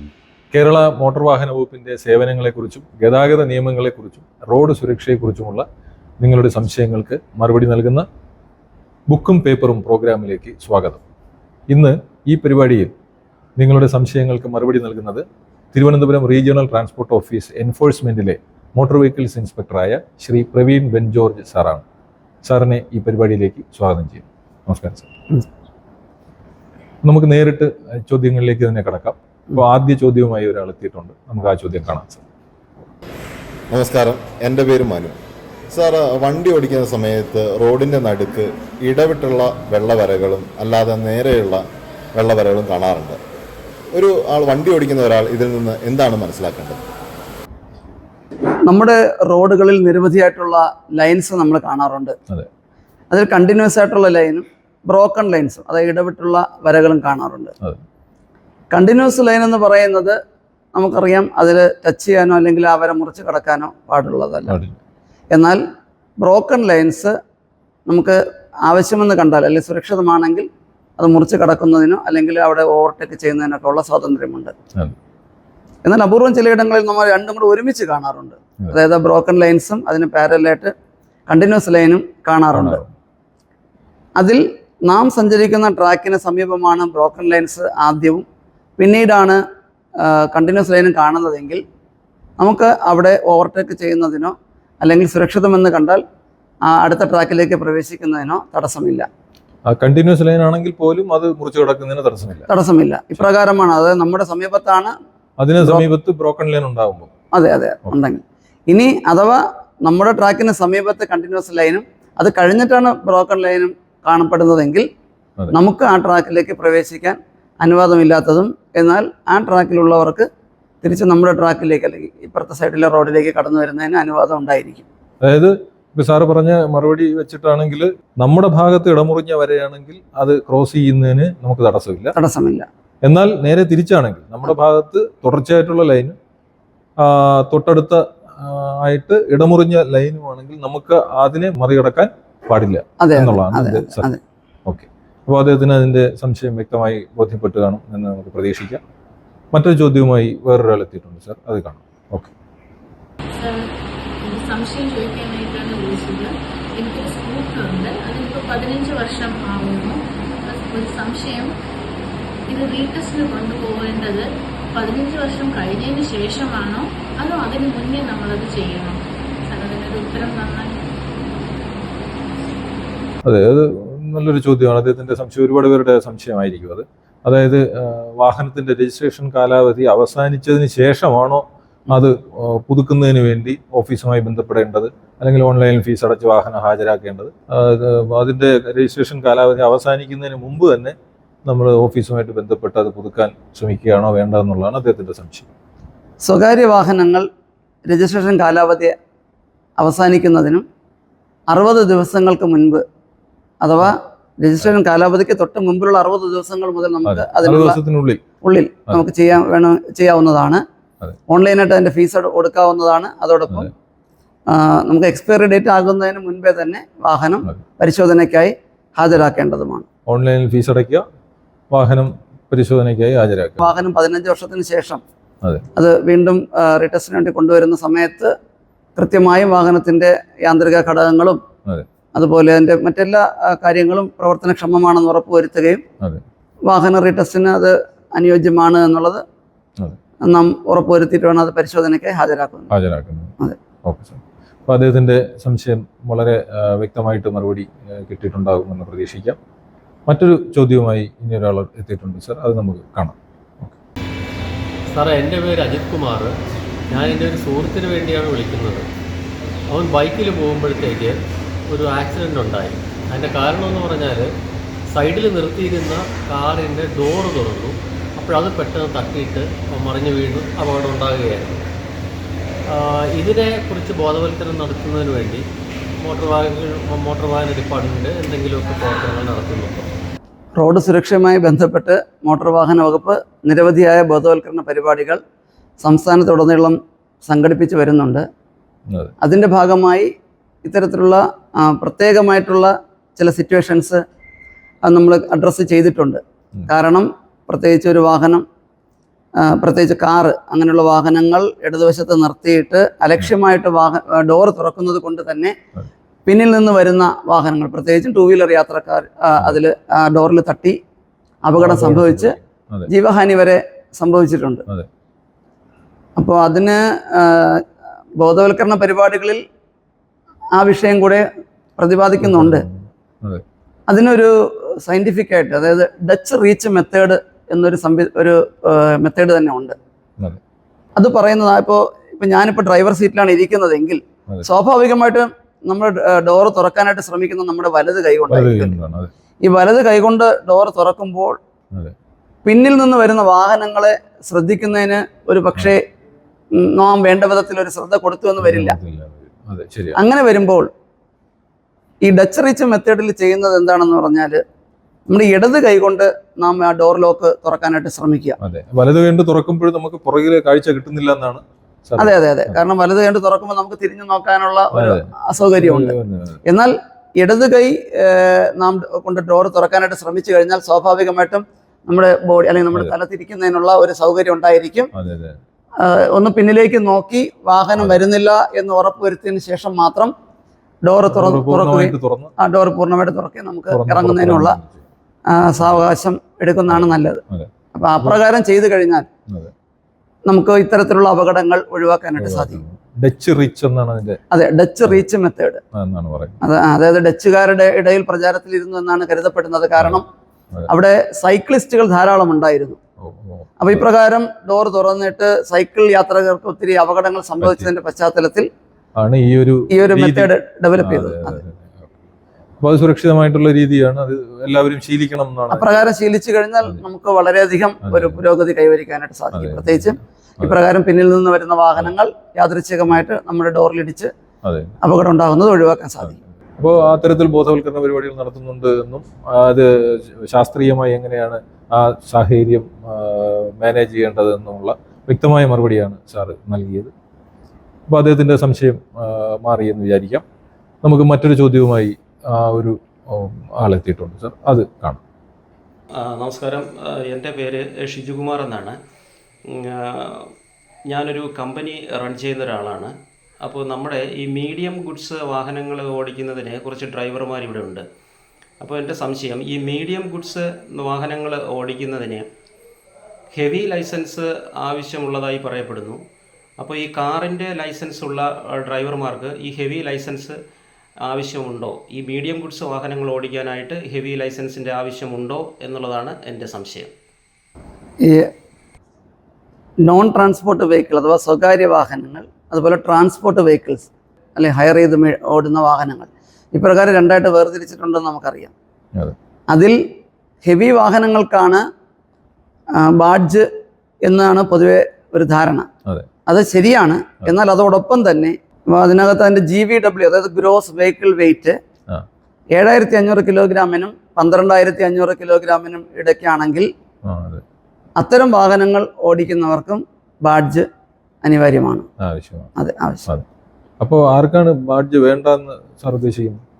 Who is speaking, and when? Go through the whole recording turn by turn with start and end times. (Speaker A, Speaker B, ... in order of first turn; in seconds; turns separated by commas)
Speaker A: 0.5-5.6, Speaker A: 6.2-8.1, Speaker A: 9.1-11.0, Speaker A: 11.7-12.9, Speaker A: 13.6-21.8, Speaker A: 22.4-25.1, Speaker A: 27.0-32.2, Speaker B: 33.7-35.2, Speaker B: 35.7-43.2, Speaker B: 43.9-46.8, Speaker C: 48.6-52.1, Speaker C: 53.1-57.5, Speaker C: 58.7-60.1, Speaker C: 60.7-64.6, Speaker A: 64.5-64.7, Speaker C: 65.3-65.6, Speaker C: 66.2-67.1, Speaker C: 67.9-70.5, Speaker C: 71.0-74.5, Speaker C: 75.8-80.7, Speaker C: 81.3-82.8, Speaker A: 82.5-82.9, Speaker C: 84.2-88.2, Speaker C: 88.8-89.4, Speaker C: 90.0-91.6, Speaker C: 92.4-96.0, Speaker C: 96.7-99.1, Speaker A: 99.7-102.5, Speaker C: 102.5-104.9, Speaker A: 105.4-107.1, Speaker C: 105.6-105.8, Speaker C: 107.3-114.8, Speaker C: 115.5-120.2, Speaker C: 120.8-124.8, Speaker A: 125.2-132.1, Speaker C: 132.1-132.7, Speaker A: 133.0-136.2, Speaker A: 137.0-144.1, Speaker C: 143.0-144.2, Speaker A: 144.7-148.8, Speaker A: 149.5-152.3, Speaker D: 154.3-161.5, Speaker D: 162.5-164.2, Speaker D: 164.8-168.9, Speaker D: 169.5-170.7, Speaker A: 173.2-190.9, Speaker A: 191.4-195.5, Speaker C: 196.2-197.2, Speaker C: 197.9-198.9, Speaker C: 199.8-200.6, Speaker C: 201.5-202.8, Speaker C: 203.6-207.8, Speaker A: 207.1-208.2, Speaker C: 208.4-210.6, Speaker C: 211.3-213.7, Speaker C: 214.5-219.8, Speaker A: 220.1-221.0, Speaker A: 221.7-223.7, Speaker C: 223.6-225.0, Speaker C: 225.8-228.3, Speaker C: 228.9-231.4, Speaker C: 232.1-235.8, Speaker C: 236.7-239.2, Speaker C: 240.2-242.7, Speaker A: 242.7-243.3, Speaker A: 243.8-249.4, Speaker A: 250.1-253.8, Speaker E: 254.9-256.3, Speaker E: 256.9-258.9, Speaker E: 259.7-261.2, Speaker E: 261.7-264.3, Speaker E: 264.9-271.6, Speaker E: 272.7-275.4, Speaker E: 276.0-279.8, Speaker C: 280.6-285.2, Speaker C: 285.8-288.2, Speaker C: 289.2-290.1, Speaker C: 290.6-294.0, Speaker C: 294.8-298.4, Speaker C: 299.4-305.5, Speaker C: 306.2-310.8, Speaker C: 311.4-312.4, Speaker A: 311.6-312.9, Speaker C: 312.9-314.6, Speaker C: 316.1-317.6, Speaker C: 318.2-319.4, Speaker C: 320.5-321.2, Speaker C: 321.8-322.6, Speaker A: 322.2-323.4, Speaker C: 323.9-329.7, Speaker C: 331.0-338.7, Speaker A: 338.3-339.1, Speaker C: 339.4-341.4, Speaker C: 342.4-345.8, Speaker C: 346.5-348.8, Speaker A: 348.4-350.0, Speaker C: 349.9-350.7, Speaker C: 352.0-354.4, Speaker C: 355.1-358.4, Speaker A: 358.4-362.6, Speaker C: 362.0-365.9, Speaker A: 364.7-366.4, Speaker C: 366.4-374.9, Speaker A: 374.9-375.4, Speaker C: 375.8-380.1, Speaker C: 380.8-384.6, Speaker A: 381.1-382.3, Speaker A: 383.7-384.8, Speaker C: 385.3-387.2, Speaker A: 386.7-388.2, Speaker C: 387.7-389.1, Speaker C: 390.3-392.6, Speaker A: 392.2-394.2, Speaker C: 394.3-395.6, Speaker A: 395.7-396.4, Speaker C: 396.4-400.0, Speaker C: 400.7-402.8, Speaker A: 403.0-403.8, Speaker C: 403.6-408.5, Speaker A: 407.4-407.7, Speaker A: 409.0-411.9, Speaker C: 409.7-411.4, Speaker A: 412.6-415.7, Speaker C: 415.5-424.1, Speaker A: 417.9-418.2, Speaker A: 419.3-420.6, Speaker A: 424.4-424.7, Speaker C: 424.8-426.2, Speaker A: 426.6-436.9, Speaker A: 437.9-440.2, Speaker A: 440.8-445.0, Speaker F: 446.0-448.8, Speaker F: 449.5-450.3, Speaker F: 450.9-457.8, Speaker F: 458.6-462.2, Speaker F: 463.3-466.0, Speaker F: 466.6-470.4, Speaker F: 471.0-476.9, Speaker C: 479.9-488.5, Speaker C: 489.5-489.8, Speaker C: 490.4-491.6, Speaker C: 492.8-493.4, Speaker C: 494.0-495.7, Speaker C: 496.3-501.5, Speaker C: 502.5-506.7, Speaker A: 507.0-507.4, Speaker C: 508.0-510.6, Speaker C: 511.2-511.9, Speaker A: 512.0-512.5, Speaker C: 512.6-513.0, Speaker A: 513.8-516.4